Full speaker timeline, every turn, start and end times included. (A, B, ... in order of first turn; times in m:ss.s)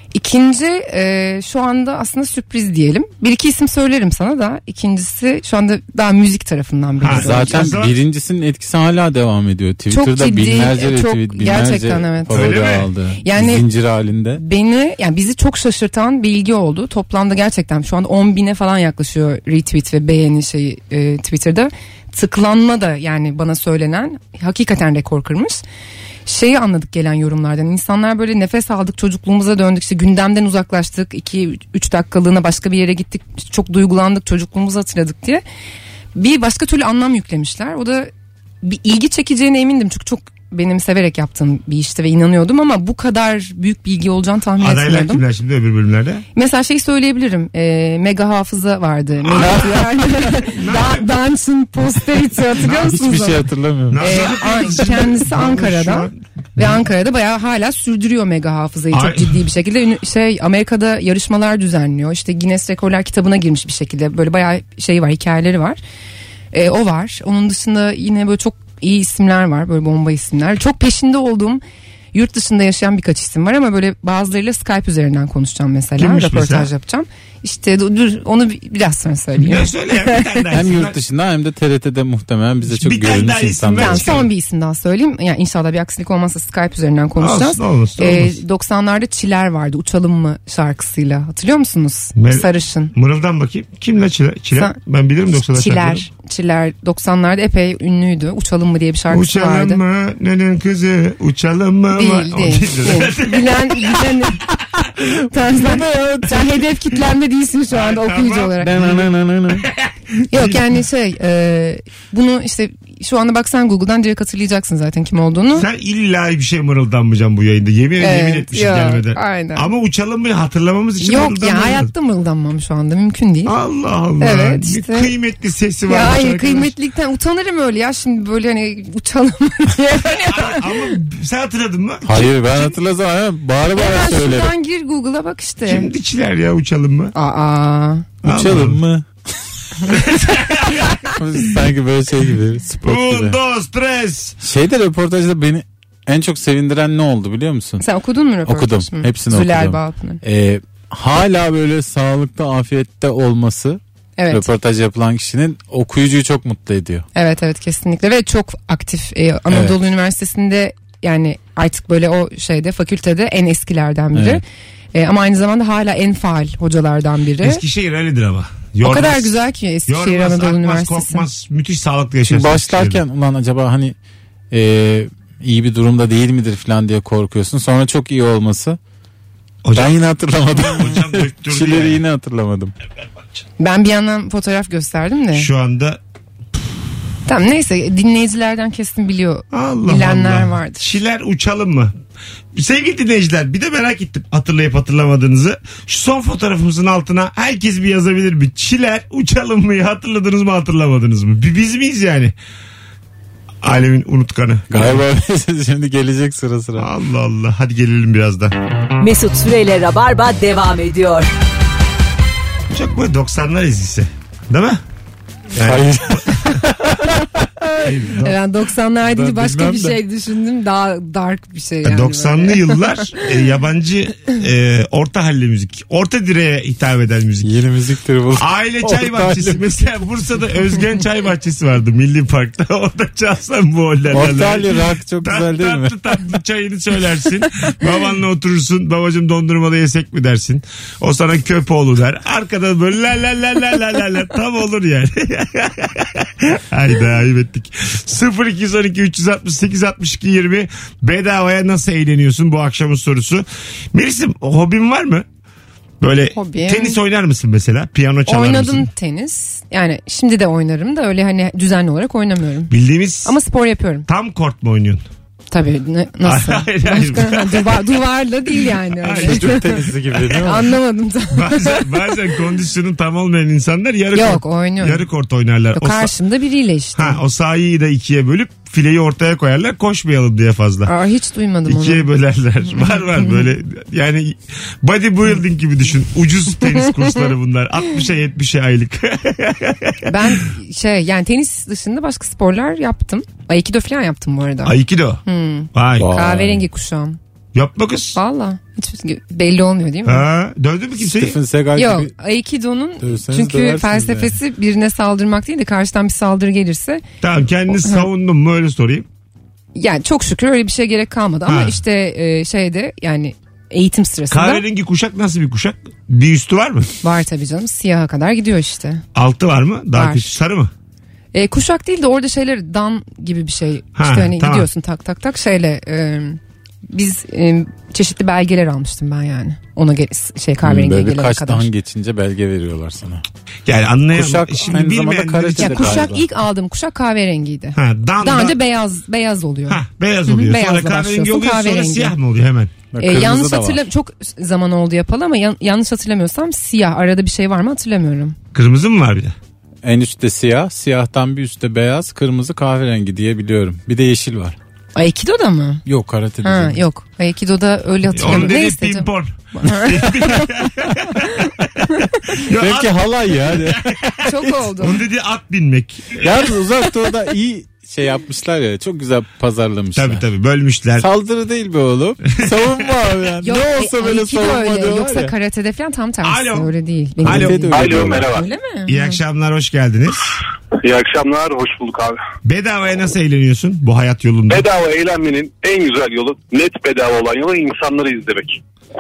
0:00.1-0:07.8 A
0:07.0-0:08.0 B
0:07.1-0:14.4 C
0:09.9-0:12.6 A
0:12.3-0:12.9 B
0:13.2-0:13.7 A
0:14.4-0:25.6 A
0:26.3-0:35.4 A
0:36.2-0:38.1 A
0:38.6-0:45.2 A
0:44.6-0:46.2 B
0:46.4-0:53.4 A
0:49.2-0:51.1 B
0:49.4-0:49.9 C
0:52.6-0:54.0 C
0:52.6-0:53.0 B
0:53.9-0:56.8 B
0:54.0-1:05.8 A
0:58.9-0:59.4 B
1:06.5-1:11.6 A
1:12.1-1:20.3 A
1:16.0-1:16.7 B
1:19.4-1:21.0 B
1:20.5-1:24.2 C
1:22.7-1:24.3 B
1:23.8-1:32.9 A
1:27.2-1:28.4 B
1:32.2-1:36.1 B
1:35.5-1:39.8 A
1:39.1-1:44.1 B
1:41.9-1:44.4 A
1:45.3-1:48.8 A
1:45.6-1:46.4 C
1:47.7-1:50.7 B
1:48.6-1:49.7 C
1:50.3-1:55.7 A
1:55.5-2:01.9 B
1:58.0-1:59.7 A
2:01.0-2:03.6 A
2:03.4-2:06.7 B
2:04.2-2:05.1 A
2:05.9-2:11.0 A
2:10.2-2:12.2 B
2:12.0-2:14.5 C
2:13.7-2:15.9 A
2:15.7-2:17.1 B
2:17.2-2:18.1 A
2:18.2-2:18.8 B
2:18.2-2:19.1 C
2:19.9-2:21.1 B
2:21.1-2:23.4 C
2:22.8-2:24.4 B
2:24.4-2:27.8 C
2:27.8-2:30.2 A
2:28.5-2:37.0 C
2:34.2-2:34.5 A
2:37.2-2:44.4 A
2:39.5-2:39.8 C
2:44.1-2:44.4 C
2:44.9-2:47.6 A
2:47.4-2:49.4 B
2:48.8-2:51.3 A
2:49.9-2:53.0 B
2:52.3-2:54.0 C
2:54.5-2:58.8 C
2:59.6-3:02.0 B
2:59.8-3:02.7 C
3:03.6-3:05.5 A
3:05.3-3:06.0 B
3:07.3-3:10.9 A
3:09.5-3:11.9 B
3:12.5-3:22.3 B
3:23.6-3:25.0 B
3:24.7-3:26.9 C
3:26.8-3:28.6 B
3:29.0-3:31.3 D
3:32.7-3:34.8 B
3:35.5-3:36.6 B
3:35.6-3:37.9 C
3:37.8-3:38.4 B
3:38.2-3:43.2 A
3:39.1-3:40.0 C
3:41.8-3:47.5 B
3:47.4-3:49.6 C
3:48.4-4:15.3 B
3:54.1-3:55.9 C
4:16.0-4:18.9 B
4:16.3-4:17.0 A
4:18.3-4:22.7 A
4:22.7-4:23.4 B
4:23.2-4:24.1 A
4:24.1-4:25.0 B
4:25.5-4:31.9 A
4:26.2-4:27.9 B
4:29.0-4:30.4 B
4:29.2-4:30.8 C
4:31.3-4:36.1 B
4:34.1-4:35.1 A
4:35.8-4:37.2 A
4:37.0-4:40.9 B
4:40.9-4:42.1 A
4:41.7-4:50.4 B
4:42.7-4:43.4 A
4:50.1-4:57.2 A
4:54.6-4:55.2 B
4:55.7-4:56.1 B
4:56.0-4:56.6 C
4:57.5-4:58.2 B
4:58.2-5:00.3 A
5:00.0-5:01.4 B
5:01.0-5:02.1 C
5:01.8-5:07.0 A
5:03.0-5:04.4 C
5:07.2-5:09.1 B
5:09.8-5:14.6 A
5:11.5-5:11.8 B
5:14.3-5:16.9 B
5:17.0-5:19.0 A
5:19.2-5:20.7 B
5:19.9-5:20.4 A
5:21.3-5:31.7 A
5:24.0-5:24.7 B
5:30.6-5:33.2 C
5:33.7-5:36.1 B
5:34.1-5:36.3 C
5:35.6-5:42.2 A
5:37.8-5:38.6 B
5:39.7-5:42.7 B
5:42.9-5:43.8 C
5:43.0-5:48.4 A
5:48.5-5:49.4 B
5:49.8-5:54.6 C
5:55.0-5:55.8 A
5:55.9-5:56.8 C
5:56.4-6:00.5 A
5:58.1-6:01.5 B
6:02.3-6:06.4 B
6:02.5-6:04.0 C
6:04.2-6:05.0 A
6:06.2-6:10.2 C
6:10.0-6:11.1 B
6:11.0-6:15.3 C
6:13.4-6:19.2 A
6:16.2-6:16.7 B
6:17.2-6:18.4 C
6:17.2-6:17.6 B
6:17.7-6:18.5 E
6:18.9-6:20.4 B
6:20.8-6:22.2 E
6:22.4-6:24.7 B
6:24.5-6:28.6 E